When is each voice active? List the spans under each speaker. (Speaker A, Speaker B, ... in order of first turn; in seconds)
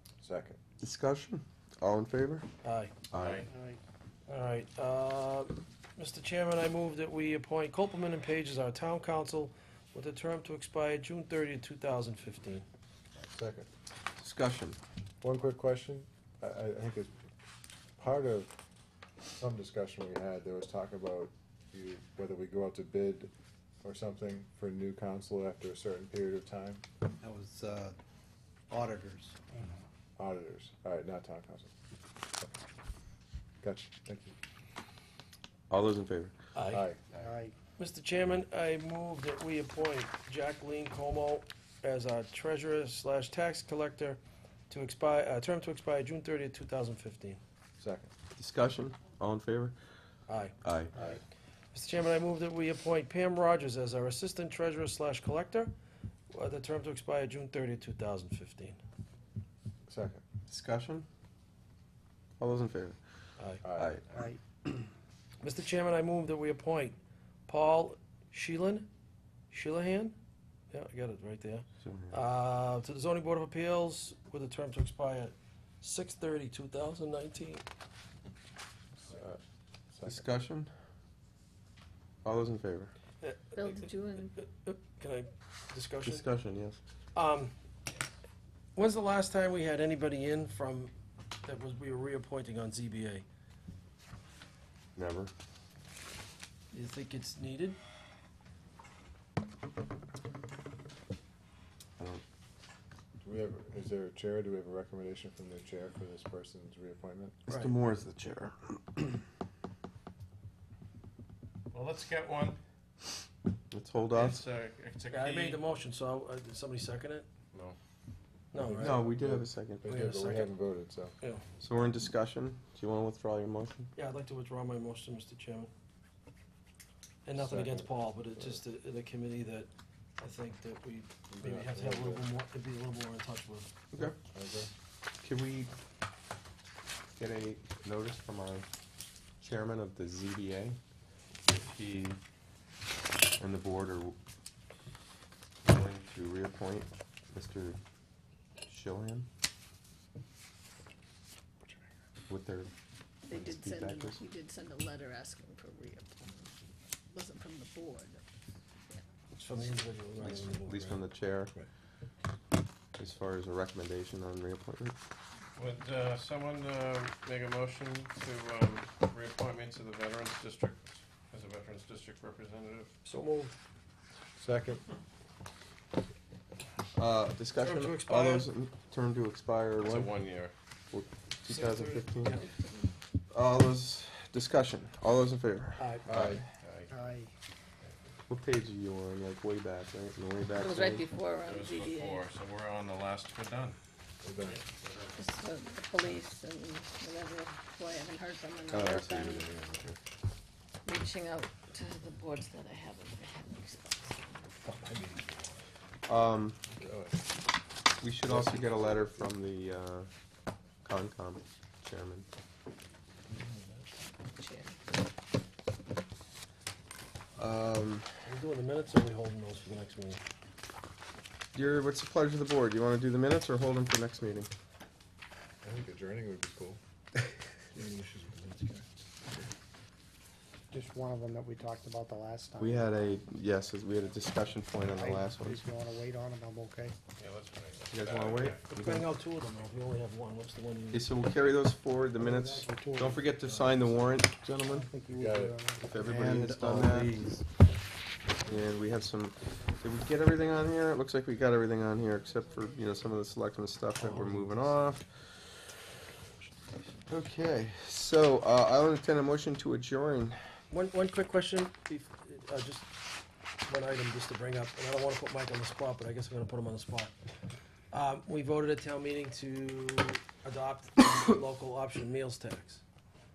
Speaker A: 0.2-0.6, 13.2-13.7, 15.2-17.1, 18.0-18.5, 19.4-23.3, 23.8-26.8, 30.2-31.7, 33.6-34.4, 36.7-37.1, 47.8-48.1, 59.9-60.2, 63.6-64.0, 79.1-79.4, 79.9-80.2, 103.2-107.4, 118.5-121.2, 127.3-127.9, 131.3-132.3, 134.3-134.7, 174.4-174.8, 186.1-186.3, 194.2-194.6, 206.8-207.2, 208.3-209.2, 225.6-226.8, 245.2-245.5
Speaker B: 0.8-2.5, 3.1-3.4, 14.2-14.8, 35.7-36.4, 48.4-49.8, 50.6-50.9, 60.5-61.1, 62.4-63.0, 63.8-64.0, 71.8-72.2, 80.0-80.7, 82.2-82.9, 86.0-86.8, 95.0-95.3, 102.0-102.2, 107.5-109.2, 113.7-114.5, 118.8-120.0, 121.6-123.9, 135.2-135.7, 137.2-138.7, 139.4-140.8, 141.5-142.2, 143.4-144.2, 145.6-147.8, 148.7-149.3, 152.3-152.7, 153.3-154.2, 160.2-161.6, 163.0-165.0, 176.9-180.2, 180.9-182.4, 183.3-186.4, 188.3-191.1, 198.7-200.0, 206.1-206.6, 208.0-210.1, 210.8-212.3, 217.4-218.1, 221.5-224.5, 232.6-235.6, 237.9-239.1, 240.9-244.9, 245.8-247.2, 248.5-255.1, 257.1-260.4
Speaker C: 2.6-2.9, 4.3-12.7, 36.5-36.9, 37.8-47.4, 50.3-50.5, 51.7-55.7, 56.3-58.8, 65.4-67.0, 67.5-68.9, 69.5-70.2, 70.7-77.6, 83.2-86.2, 87.2-87.5, 88.8-90.9, 91.4-93.2, 96.7-97.8, 107.5-107.8, 115.1-117.3, 118.5-119.0, 119.9-120.6, 124.0-125.7, 127.2-133.7, 159.4-161.0, 173.0-173.6, 177.6-178.5, 181.5-182.5, 185.8-186.1, 204.6-205.5, 218.3-220.2, 227.8-228.8, 238.7-241.1, 260.7-262.9, 263.7-267.1, 267.9-272.8
Speaker D: 3.1-3.5, 111.7-112.6, 114.1-115.6, 165.6-172.9, 179.8-180.5, 186.2-186.9, 191.4-193.8, 194.4-195.2, 237.2-238.7
Speaker E: 3.5-3.8, 37.1-37.5, 64.1-64.4, 186.9-187.3, 230.7-233.2, 234.8-236.9, 242.2-244.0, 244.6-246.0
Speaker F: 27.2-28.0, 28.7-29.4, 246.0-247.5
Speaker G: 83.6-84.4, 153.2-156.6, 157.1-158.2, 190.6-192.3, 195.2-199.5, 200.8-204.5, 214.2-214.8